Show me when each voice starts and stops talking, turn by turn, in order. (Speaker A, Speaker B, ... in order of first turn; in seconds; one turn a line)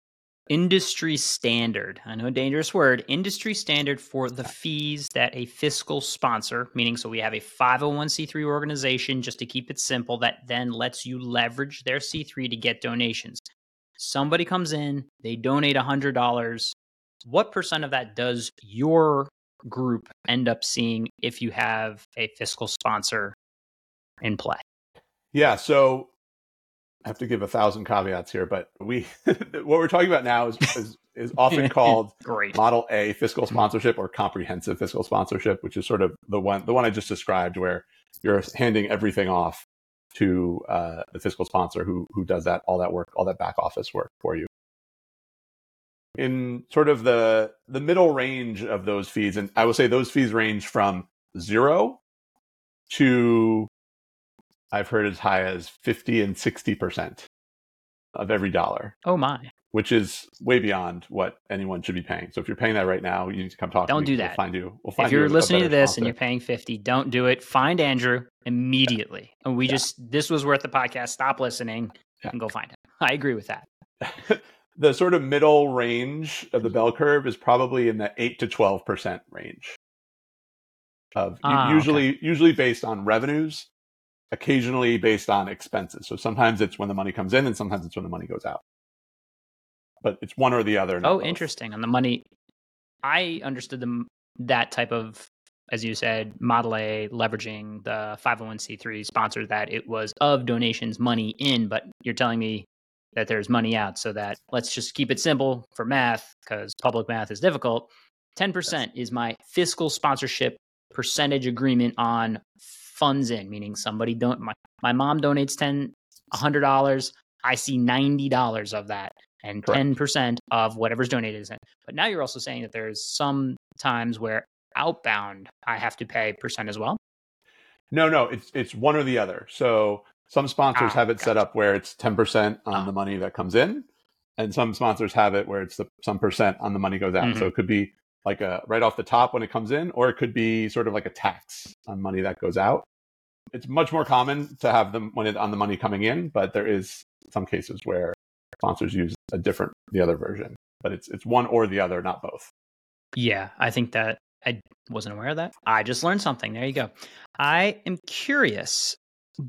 Speaker A: 0.5-13.4
Speaker A: 14.0-23.4
Speaker A: 24.2-24.6
Speaker B: 25.3-26.1
Speaker B: 27.1-44.5
Speaker A: 31.5-32.6
Speaker B: 46.2-52.0
Speaker B: 52.9-53.7
Speaker B: 54.7-57.3
Speaker B: 58.1-59.0
Speaker A: 59.0-59.5
Speaker B: 59.7-66.1
Speaker A: 63.9-64.4
Speaker A: 65.0-73.7
Speaker B: 74.0-79.8
Speaker B: 81.2-83.7
Speaker A: 81.4-82.0
Speaker B: 84.3-88.6
Speaker B: 90.0-91.5
Speaker A: 91.0-92.3
Speaker A: 93.0-127.0
Speaker B: 127.9-133.9
Speaker A: 130.8-131.3
Speaker B: 134.4-142.9
Speaker A: 137.2-137.5
Speaker B: 143.5-152.5
Speaker A: 153.2-159.0